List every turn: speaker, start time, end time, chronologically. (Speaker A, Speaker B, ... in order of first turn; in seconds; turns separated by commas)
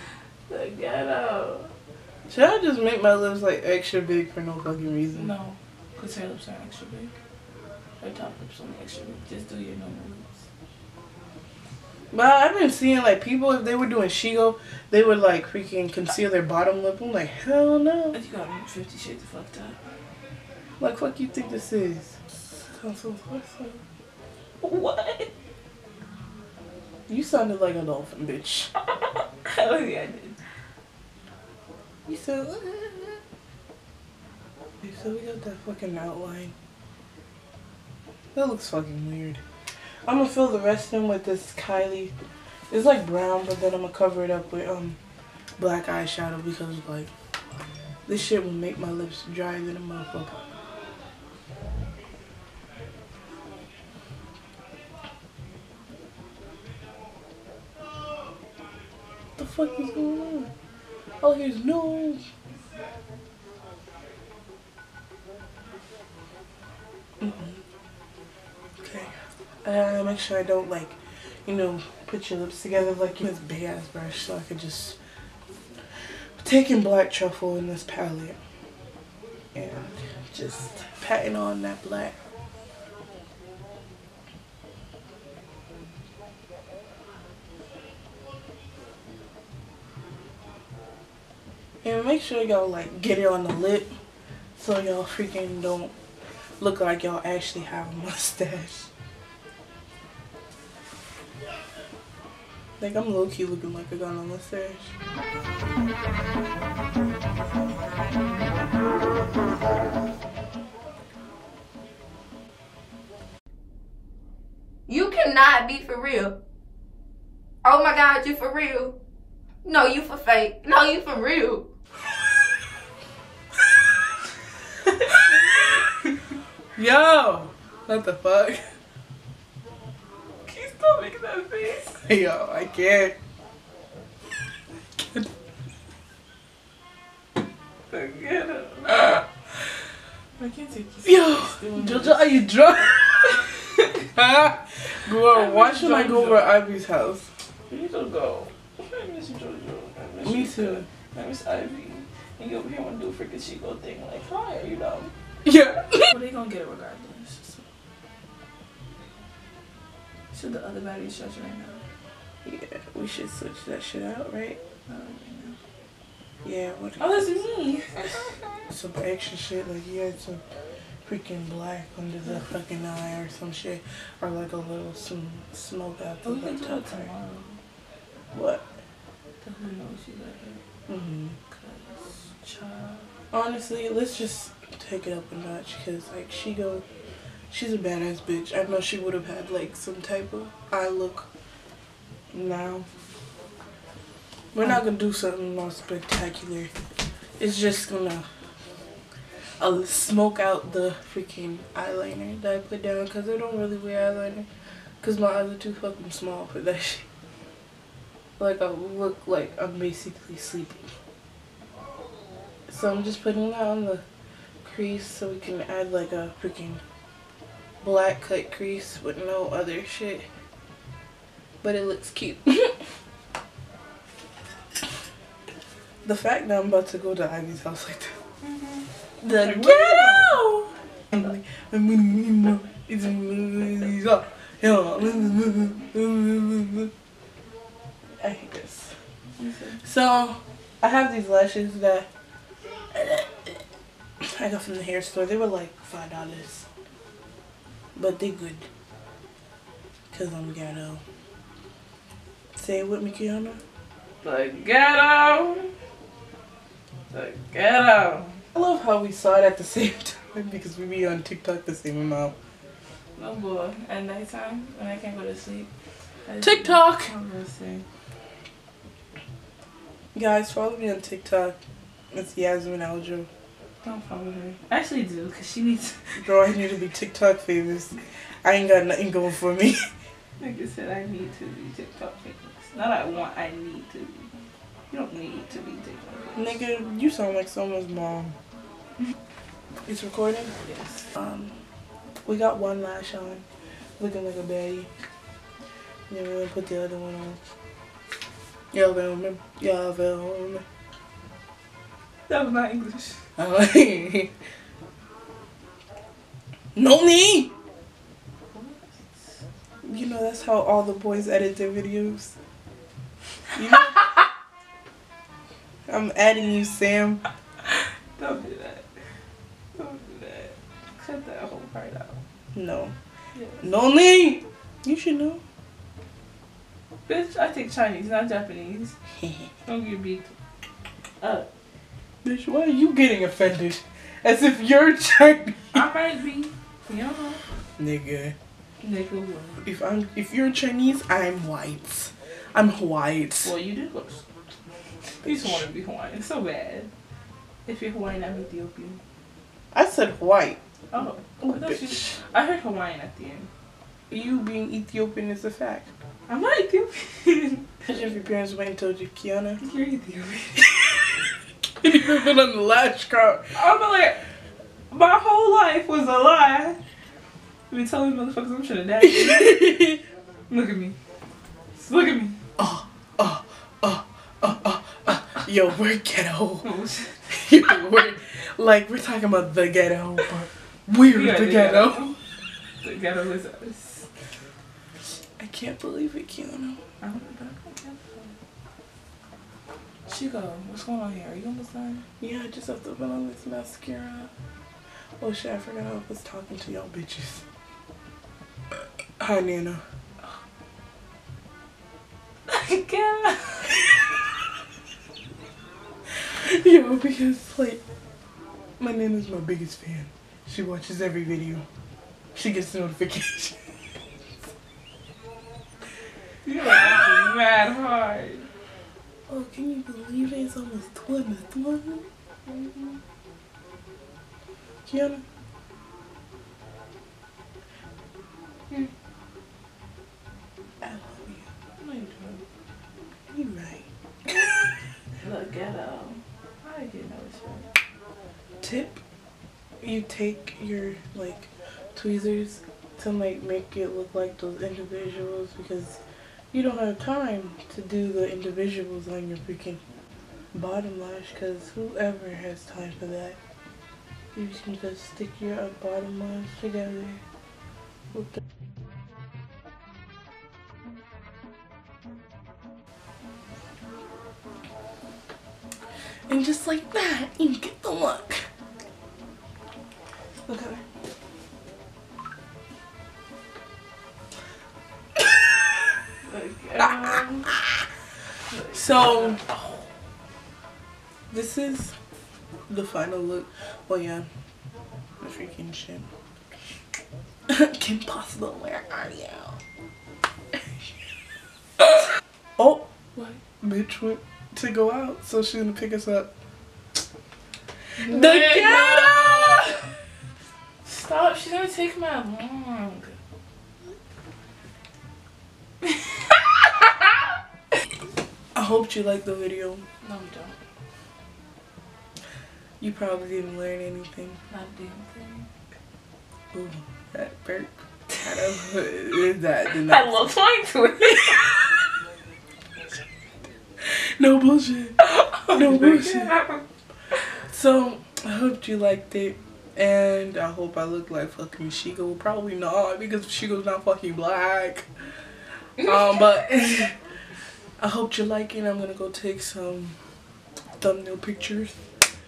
Speaker A: 0.5-1.7, Speaker B: 2.3-5.3, Speaker A: 5.1-7.1, Speaker A: 8.0-10.4, Speaker B: 12.1-18.2, Speaker A: 18.1-19.8, Speaker B: 20.8-23.8, Speaker A: 24.6-25.3, Speaker B: 27.1-28.7, Speaker A: 29.4-30.4, Speaker B: 32.1-33.2, Speaker B: 34.8-36.5, Speaker B: 38.3-39.4, Speaker B: 40.0-42.1, Speaker B: 42.7-45.0, Speaker B: 45.6-47.1, Speaker B: 48.0-50.5, Speaker B: 59.4-60.5, Speaker B: 61.2-62.2, Speaker B: 67.2-67.6, Speaker B: 68.8-69.1, Speaker B: 69.6-75.0, Speaker B: 76.4-78.4, Speaker B: 79.5-82.1, Speaker B: 91.8-93.9, Speaker B: 94.6-95.9, Speaker B: 96.6-98.9, Speaker B: 102.8-104.9, Speaker C: 114.9-116.4, Speaker C: 117.6-119.0, Speaker C: 119.6-121.7, Speaker B: 126.7-128.6, Speaker A: 130.4-132.0, Speaker B: 131.9-133.2, Speaker B: 134.9-135.3, Speaker A: 137.9-139.2, Speaker A: 140.4-142.7, Speaker B: 141.0-143.5, Speaker B: 144.0-147.3, Speaker A: 145.3-146.6, Speaker A: 147.7-155.1, Speaker B: 150.2-150.8, Speaker B: 155.4-156.1, Speaker A: 155.9-157.7, Speaker A: 160.3-161.8, Speaker B: 162.4-164.6, Speaker A: 164.9-165.6, Speaker B: 166.4-167.4, Speaker A: 167.0-168.4, Speaker B: 168.7-170.4, Speaker B: 171.1-177.1, Speaker A: 176.2-177.5, Speaker B: 178.3-178.6, Speaker A: 179.4-180.6, Speaker B: 180.9-181.3, Speaker A: 181.5-183.1, Speaker B: 183.3-186.8, Speaker B: 187.5-191.3, Speaker B: 192.3-192.8, Speaker B: 194.5-196.7, Speaker B: 197.4-198.2, Speaker B: 199.6-204.5, Speaker B: 205.0-207.1, Speaker B: 208.4-210.9, Speaker B: 212.7-214.0, Speaker B: 214.6-216.8, Speaker B: 217.8-220.2, Speaker B: 221.6-222.8, Speaker B: 226.0-228.2, Speaker A: 228.4-228.8, Speaker B: 229.2-236.9, Speaker A: 229.4-230.5, Speaker B: 238.2-238.9, Speaker A: 239.4-239.8, Speaker B: 239.8-242.1, Speaker B: 242.9-243.6, Speaker B: 244.2-246.7, Speaker B: 247.9-248.7, Speaker B: 250.1-251.0, Speaker B: 252.6-253.6, Speaker A: 254.2-255.7, Speaker A: 257.1-258.4, Speaker B: 258.5-262.3, Speaker A: 263.1-265.7, Speaker A: 266.3-267.8, Speaker B: 266.4-267.1, Speaker B: 270.1-271.6, Speaker B: 272.1-273.3, Speaker A: 273.8-276.0, Speaker B: 276.2-279.9, Speaker A: 280.4-284.3, Speaker A: 284.9-286.6, Speaker B: 286.4-288.3, Speaker B: 289.9-290.5, Speaker A: 290.6-291.0, Speaker B: 291.1-291.5, Speaker B: 292.2-293.4, Speaker B: 294.0-294.9, Speaker B: 296.1-297.4, Speaker B: 298.7-300.6, Speaker A: 302.3-303.2, Speaker B: 303.4-304.3, Speaker B: 306.8-307.5, Speaker A: 308.5-309.4, Speaker B: 309.8-312.3, Speaker B: 313.5-314.1, Speaker B: 315.9-317.2, Speaker A: 317.6-318.9, Speaker A: 319.8-322.2, Speaker B: 322.5-322.9, Speaker A: 323.3-323.6, Speaker B: 323.6-325.4, Speaker A: 327.1-328.9, Speaker A: 329.6-330.3, Speaker A: 331.2-331.5, Speaker B: 332.2-335.8, Speaker A: 335.7-337.4, Speaker B: 337.8-338.3, Speaker A: 338.8-339.6, Speaker B: 339.6-343.5, Speaker A: 343.4-344.2, Speaker A: 345.2-346.9, Speaker B: 345.2-345.5, Speaker A: 347.6-349.0, Speaker B: 349.7-350.6, Speaker A: 350.9-353.5, Speaker B: 351.4-352.1, Speaker B: 354.1-355.9, Speaker A: 356.3-357.8, Speaker B: 357.9-359.6, Speaker A: 359.6-361.2, Speaker B: 361.8-363.6, Speaker A: 363.5-364.2, Speaker A: 364.9-366.8, Speaker A: 367.7-370.0, Speaker B: 369.0-370.0, Speaker A: 370.5-370.9, Speaker A: 371.8-372.4, Speaker B: 372.6-376.7, Speaker A: 376.6-377.1, Speaker B: 377.3-382.1, Speaker A: 381.1-382.1, Speaker A: 382.8-384.1, Speaker B: 385.4-386.8, Speaker A: 387.0-388.3, Speaker A: 390.1-392.0, Speaker B: 392.2-394.3, Speaker B: 395.2-397.4, Speaker B: 399.2-399.8, Speaker A: 402.5-403.9, Speaker B: 406.2-407.8, Speaker B: 408.8-411.6, Speaker B: 412.3-413.6, Speaker A: 416.4-418.5, Speaker B: 419.3-422.1, Speaker A: 422.4-423.0, Speaker B: 424.9-425.2, Speaker B: 430.8-431.4, Speaker A: 431.8-432.4, Speaker B: 433.3-434.7, Speaker A: 435.2-437.7, Speaker B: 438.6-439.0, Speaker B: 439.8-446.0, Speaker B: 446.5-449.8, Speaker B: 450.5-453.4, Speaker B: 454.3-457.2, Speaker B: 458.1-458.4, Speaker B: 466.3-468.5, Speaker B: 470.5-470.8, Speaker A: 476.2-477.5, Speaker A: 478.5-479.7, Speaker B: 478.7-479.4, Speaker B: 481.3-481.9, Speaker B: 482.7-484.3, Speaker B: 485.2-486.1, Speaker B: 487.5-489.6, Speaker B: 491.8-492.8, Speaker B: 493.6-496.3, Speaker A: 498.0-499.8, Speaker B: 498.0-499.8, Speaker A: 500.8-503.1, Speaker A: 505.8-506.8, Speaker B: 508.5-509.8, Speaker A: 510.0-510.5, Speaker B: 512.8-514.4, Speaker A: 514.5-515.5, Speaker B: 516.5-520.3, Speaker A: 519.7-521.6, Speaker B: 523.8-526.4, Speaker A: 525.0-526.6, Speaker B: 527.5-534.9, Speaker B: 535.8-536.9, Speaker B: 537.8-540.0, Speaker B: 540.8-541.8